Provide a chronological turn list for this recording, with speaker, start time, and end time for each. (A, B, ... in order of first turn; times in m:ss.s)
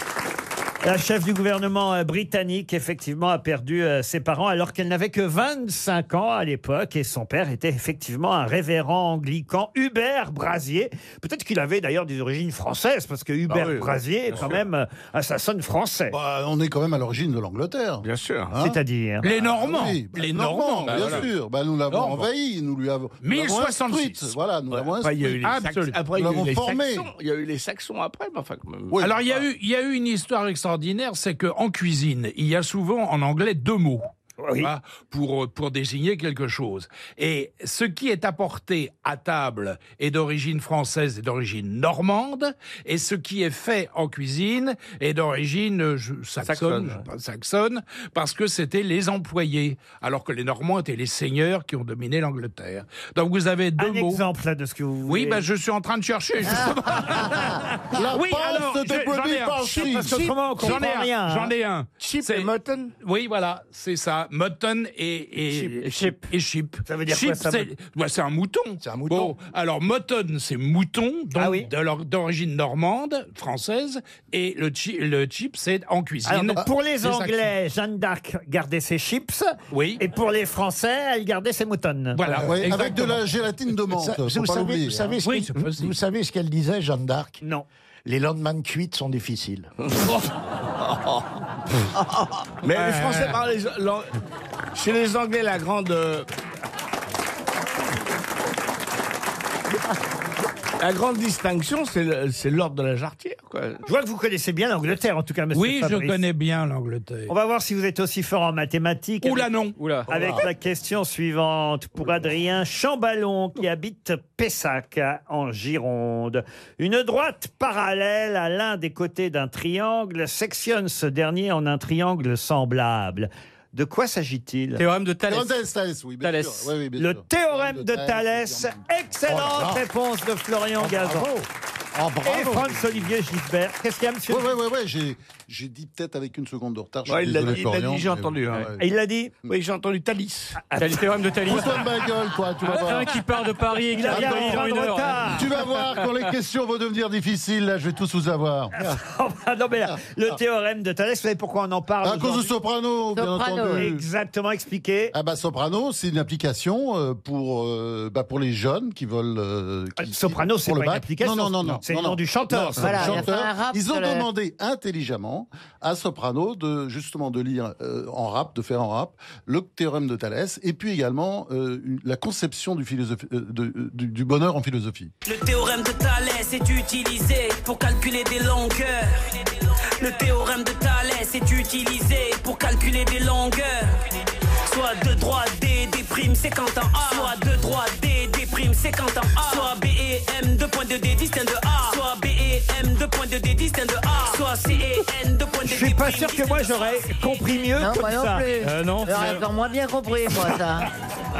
0:00.8-0:16.2 A
0:13.5-0:14.6 B
0:16.1-0:18.8 C
0:18.0-0:18.5 B
0:18.6-0:19.3 A
0:19.2-0:21.3 D
0:19.3-0:25.4 C
0:20.9-0:21.2 B
0:21.9-0:22.3 D
0:23.2-0:24.3 D
0:24.7-0:29.4 B
0:25.3-0:26.0 D
0:26.1-0:27.1 C
0:28.9-0:29.2 C
0:29.0-0:34.1 D
0:34.4-0:34.7 A
0:34.6-0:54.2 D
0:46.4-0:47.0 B
0:53.8-0:55.4 A
0:55.0-0:57.6 D
0:57.9-1:00.2 C
0:58.1-1:01.5 A
0:58.7-1:17.5 D
1:02.0-1:02.9 B
1:05.5-1:06.1 B
1:05.8-1:06.2 E
1:06.8-1:07.7 A
1:08.8-1:09.3 F
1:11.3-1:11.7 A
1:16.2-1:22.2 A
1:19.7-1:20.0 D
1:22.1-1:23.2 D
1:22.4-1:22.7 F
1:22.4-1:25.2 C
1:23.9-1:27.4 F
1:25.2-1:26.0 D
1:28.0-1:29.7 F
1:29.8-1:30.3 B
1:30.8-1:31.2 B
1:32.6-1:34.1 B
1:32.8-1:33.3 D
1:34.7-1:36.3 B
1:40.8-1:43.8 B
1:43.8-1:46.2 A
1:45.5-1:47.3 D
1:47.3-1:49.5 A
1:49.2-1:49.7 D
1:49.8-1:50.1 E
1:50.1-2:04.8 A
2:04.8-2:05.5 E
2:05.3-2:08.8 C
2:06.2-2:06.7 E
2:07.0-2:11.3 A
2:09.3-2:09.8 F
2:10.8-2:11.4 F
2:11.9-2:12.9 F
2:12.2-2:14.5 A
2:14.3-2:18.8 C
2:17.1-2:18.7 B
2:18.8-2:19.3 A
2:19.5-2:20.6 B
2:20.6-2:21.0 A
2:20.7-2:21.9 E
2:21.4-2:23.2 C
2:22.6-2:25.4 E
2:23.9-2:25.5 A
2:24.1-2:24.6 C
2:25.3-2:28.9 C
2:28.7-2:32.5 A
2:32.0-2:34.0 C
2:33.1-2:33.9 G
2:33.7-2:35.1 A
2:35.1-2:55.1 C
2:40.0-2:43.2 A
2:42.8-2:44.3 G
2:55.2-3:03.9 H
3:04.6-3:16.9 H
3:15.6-3:18.5 A
3:17.7-3:20.9 G
3:18.6-3:19.4 E